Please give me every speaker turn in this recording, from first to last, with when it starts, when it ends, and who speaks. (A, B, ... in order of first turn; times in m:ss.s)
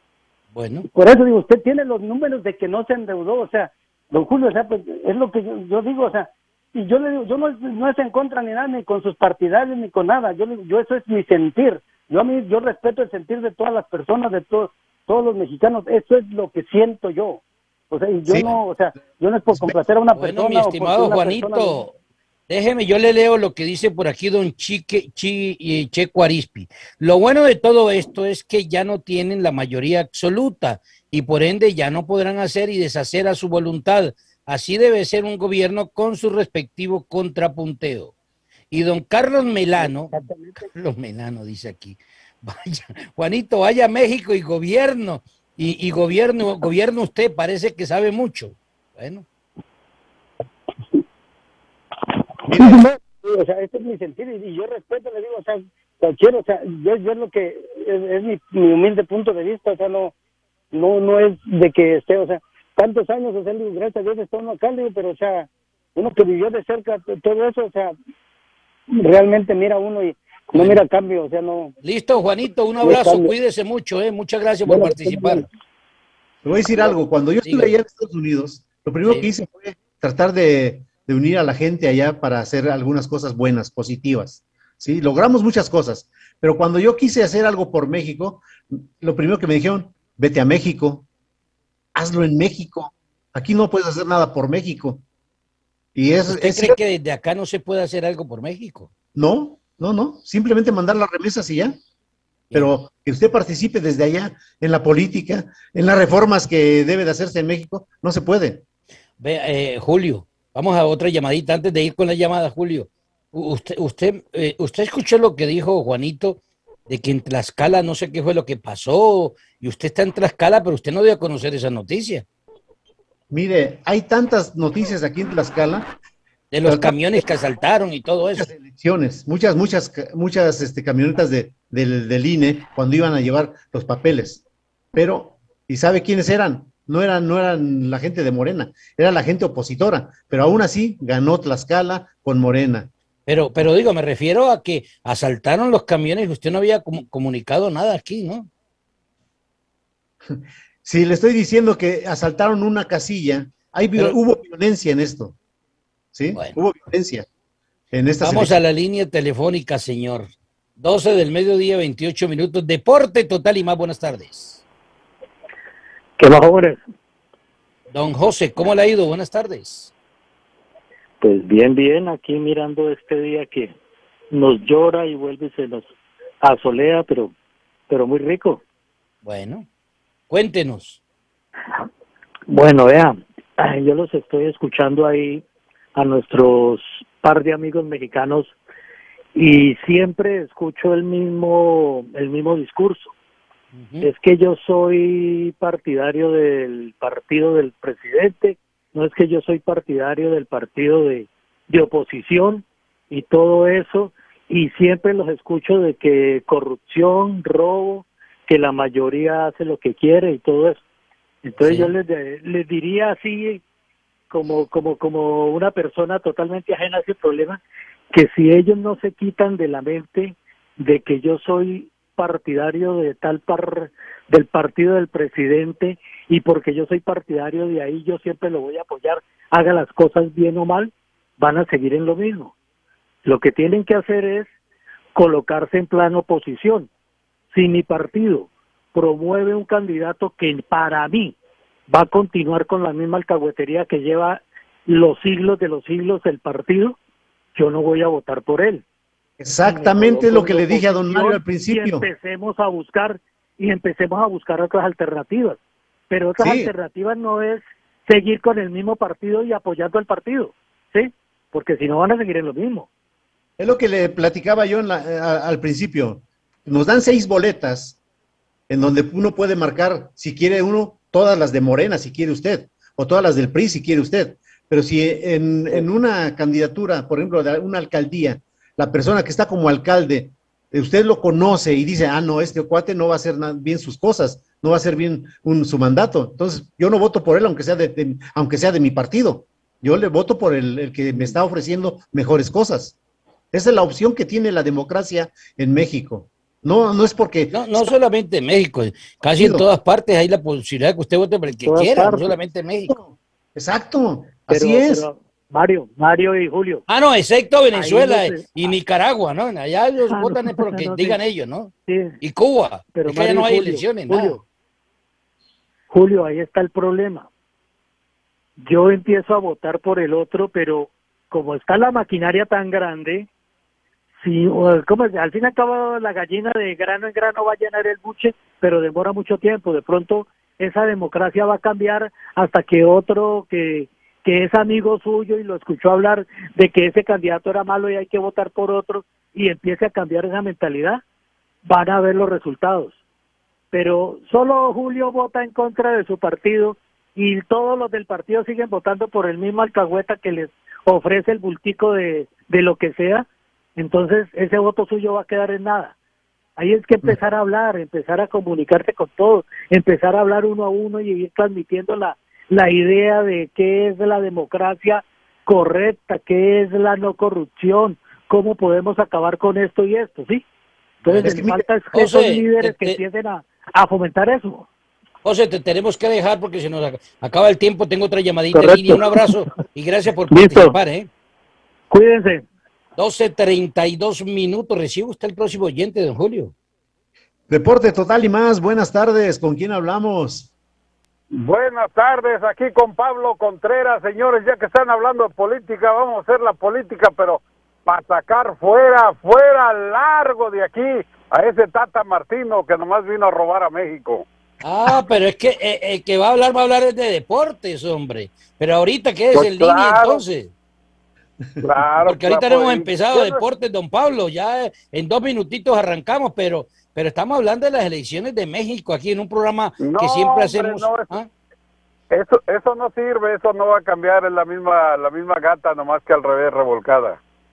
0:00.5-0:00.9 A
0:00.9-0:21.8 B
0:18.3-0:18.5 C
0:20.2-0:21.9 A
0:22.5-0:38.1 A
0:38.7-0:40.1 A
0:39.8-0:40.6 B
0:40.6-0:49.2 A
0:52.5-0:52.8 C
0:52.5-1:00.1 B
1:00.7-1:08.0 B
1:08.9-1:11.7 B
1:11.8-1:15.4 A
1:12.8-1:13.3 B
1:14.7-1:15.5 B
1:16.4-1:31.1 C
1:17.4-1:17.7 A
1:32.0-1:35.0 C
1:36.0-1:36.8 C
1:36.3-1:38.9 A
1:39.2-1:41.8 C
1:42.5-1:48.6 C
1:49.2-2:02.2 A
2:03.3-2:05.9 C
2:06.5-2:08.5 A
2:06.6-2:07.0 C
2:08.4-2:14.4 C
2:14.9-2:22.9 C
2:23.3-2:28.5 A
2:30.3-2:35.4 C
2:36.1-2:37.3 C
2:37.9-2:38.6 C
2:38.2-2:44.6 A
2:46.2-2:46.8 D
2:47.9-2:49.9 A
2:51.2-2:53.8 D
2:54.3-2:55.9 D
2:56.4-2:57.3 D
2:57.9-2:58.6 D
2:59.2-2:59.7 A
3:00.3-3:01.0 A
3:02.5-3:05.4 D
3:06.0-3:08.5 D
3:09.4-3:13.1 D
3:13.8-3:14.1 A
3:14.0-3:30.8 D
3:31.4-3:33.6 D
3:31.6-3:31.9 A
3:34.3-3:37.6 D
3:38.1-3:52.5 D
3:53.2-3:54.5 D
3:55.2-3:56.9 D
3:57.5-4:01.4 D
4:01.9-4:07.0 D
4:07.6-4:08.8 D
4:09.4-4:12.1 C
4:09.6-4:15.6 D
4:16.1-4:22.9 D
4:16.4-4:16.7 C
4:23.6-4:28.0 C
4:28.7-4:53.0 C
4:53.5-4:57.9 C
4:57.5-5:02.9 A
4:59.3-4:59.7 C
5:01.7-5:02.3 D
5:02.9-5:05.0 C
5:04.5-5:06.8 D
5:06.9-5:14.4 A
5:07.7-5:08.7 D
5:10.1-5:11.2 D
5:11.9-5:12.1 D
5:13.0-5:14.4 D
5:15.9-5:17.3 D
5:18.6-5:23.3 D
5:24.2-5:41.0 D
5:41.7-5:43.0 D
5:43.7-5:56.0 D
5:56.6-6:10.4 D
6:11.0-6:14.7 D
6:11.1-6:13.0 A
6:11.1-6:11.7 C
6:15.2-6:21.1 A
6:18.5-6:19.4 D
6:20.3-6:20.7 D
6:21.9-6:22.5 D
6:23.0-6:26.5 A
6:27.5-6:30.5 C
6:31.3-6:44.3 E
6:44.6-6:50.5 A
6:49.3-6:50.2 E
6:51.6-6:53.4 E
6:52.0-7:01.3 A
6:59.8-7:01.1 E
7:02.1-7:07.2 E